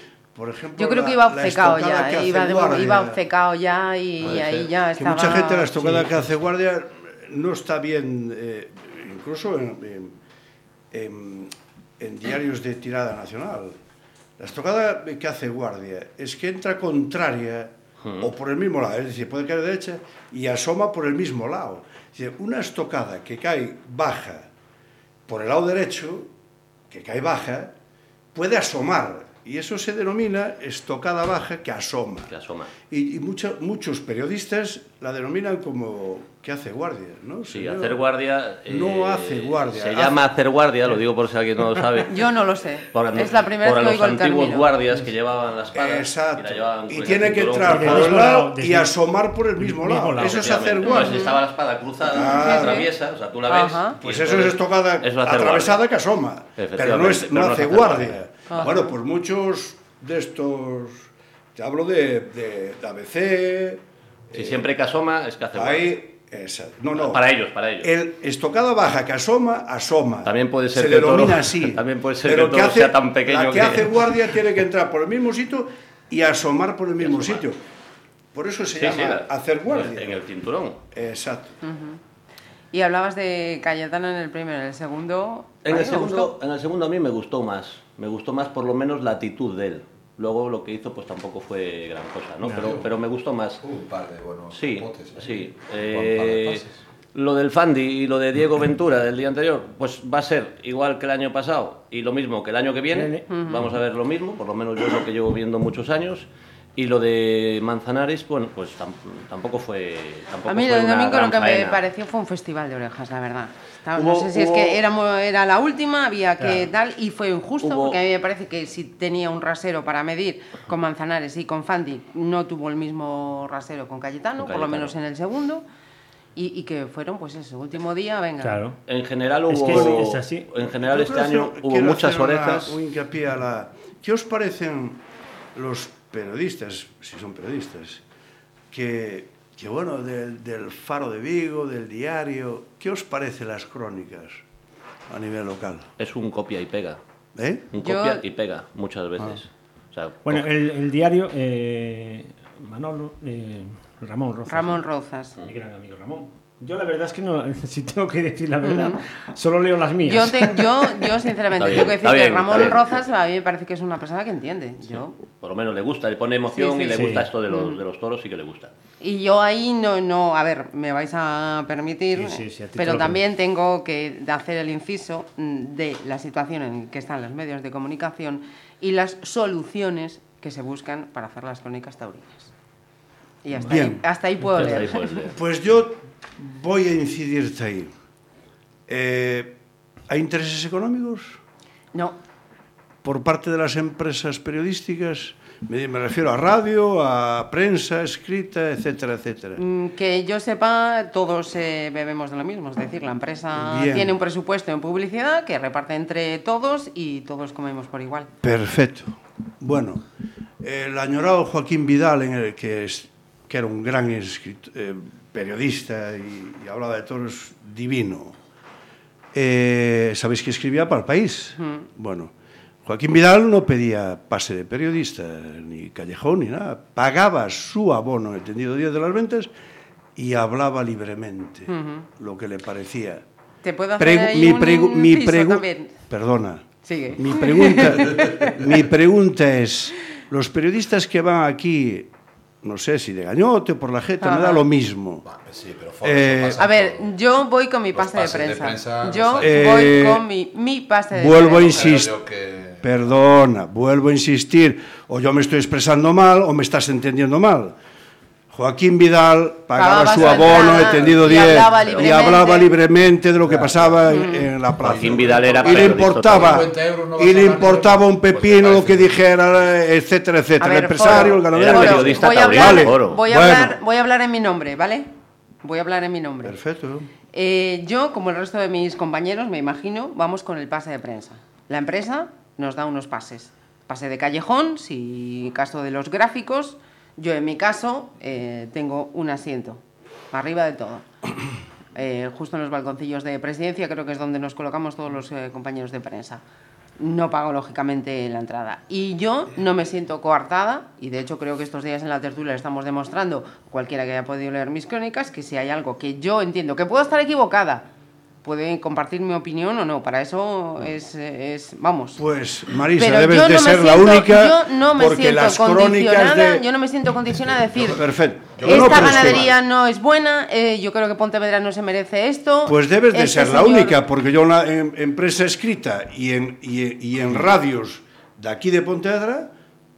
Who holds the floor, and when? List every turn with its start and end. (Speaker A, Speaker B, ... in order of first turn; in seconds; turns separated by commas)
Speaker A: 0.3-3.2, Speaker B: 0.8-5.8, Speaker A: 4.2-10.1, Speaker C: 5.7-6.2, Speaker A: 10.9-13.8, Speaker A: 14.4-24.5, Speaker D: 18.0-18.3, Speaker A: 25.3-26.3, Speaker A: 26.9-27.7, Speaker A: 28.3-32.3, Speaker D: 32.3-32.7, Speaker A: 32.9-38.0, Speaker D: 37.5-42.3, Speaker A: 38.7-40.2, Speaker B: 42.1-44.7, Speaker D: 42.9-48.2, Speaker A: 45.7-51.4, Speaker C: 47.6-49.0, Speaker C: 49.6-50.6, Speaker D: 50.2-55.8, Speaker B: 50.9-51.4, Speaker A: 52.1-52.9, Speaker B: 52.2-52.9, Speaker B: 53.5-54.0, Speaker A: 54.0-64.7, Speaker D: 56.6-58.2, Speaker B: 58.5-59.0, Speaker D: 64.3-66.0, Speaker A: 65.5-67.3, Speaker D: 66.9-67.9, Speaker A: 67.8-77.6, Speaker D: 70.2-74.1, Speaker D: 77.0-77.5, Speaker A: 78.3-80.2, Speaker D: 78.8-80.8, Speaker A: 80.9-81.5, Speaker B: 81.6-82.0, Speaker B: 82.7-86.3, Speaker D: 85.7-93.6, Speaker C: 92.4-92.8, Speaker E: 92.6-92.9, Speaker E: 93.6-96.8, Speaker D: 94.5-96.6, Speaker D: 97.2-111.8, Speaker C: 102.9-103.2, Speaker B: 103.3-103.7, Speaker B: 110.5-125.6, Speaker D: 113.9-114.8, Speaker C: 116.4-116.7, Speaker D: 117.6-118.0, Speaker D: 124.4-125.0, Speaker B: 126.4-128.6, Speaker C: 128.4-128.8, Speaker D: 128.9-132.8, Speaker C: 129.5-130.5, Speaker A: 129.7-130.0, Speaker A: 130.8-135.0, Speaker A: 135.6-138.0, Speaker A: 138.7-144.4, Speaker A: 145.1-145.9, Speaker D: 146.0-147.0, Speaker A: 147.3-147.7, Speaker D: 147.7-150.4, Speaker B: 147.8-148.2, Speaker C: 150.2-154.8, Speaker B: 154.5-155.3, Speaker C: 155.4-161.0, Speaker B: 158.6-159.0, Speaker B: 160.1-165.2, Speaker D: 161.6-162.9, Speaker D: 165.4-168.7, Speaker B: 166.5-167.8, Speaker C: 166.9-167.3, Speaker B: 169.0-182.5, Speaker C: 172.1-173.2, Speaker B: 183.4-185.1, Speaker A: 183.6-184.1, Speaker C: 184.5-184.8, Speaker D: 184.6-185.4, Speaker A: 185.3-187.9, Speaker A: 188.9-189.6, Speaker A: 190.1-191.4, Speaker A: 193.0-199.6, Speaker B: 199.6-208.3, Speaker A: 203.6-204.2, Speaker A: 208.4-210.0, Speaker A: 210.6-218.4, Speaker A: 219.3-222.3, Speaker B: 221.6-221.9, Speaker A: 222.8-229.5, Speaker A: 230.2-233.2, Speaker B: 231.7-232.1, Speaker B: 233.6-236.1, Speaker A: 234.0-242.1, Speaker B: 236.8-238.8, Speaker A: 242.6-245.3, Speaker B: 244.2-244.6, Speaker E: 245.2-247.1, Speaker A: 246.0-246.7, Speaker B: 246.6-252.0, Speaker E: 247.9-250.0, Speaker A: 249.4-250.2, Speaker A: 251.1-252.1, Speaker E: 251.5-253.1, Speaker A: 252.8-257.8, Speaker A: 258.5-273.8, Speaker B: 259.7-262.8, Speaker D: 260.9-262.1, Speaker E: 263.5-264.0, Speaker B: 264.1-264.5, Speaker D: 264.8-266.7, Speaker E: 264.8-269.3, Speaker B: 270.6-275.1, Speaker D: 271.0-273.2, Speaker B: 275.6-276.6, Speaker A: 276.4-277.1, Speaker B: 277.3-291.1, Speaker B: 291.9-296.4, Speaker B: 297.0-307.9, Speaker B: 308.4-312.2, Speaker A: 312.2-316.6, Speaker B: 313.0-324.0, Speaker A: 317.7-319.5, Speaker E: 318.5-319.5, Speaker A: 322.7-329.5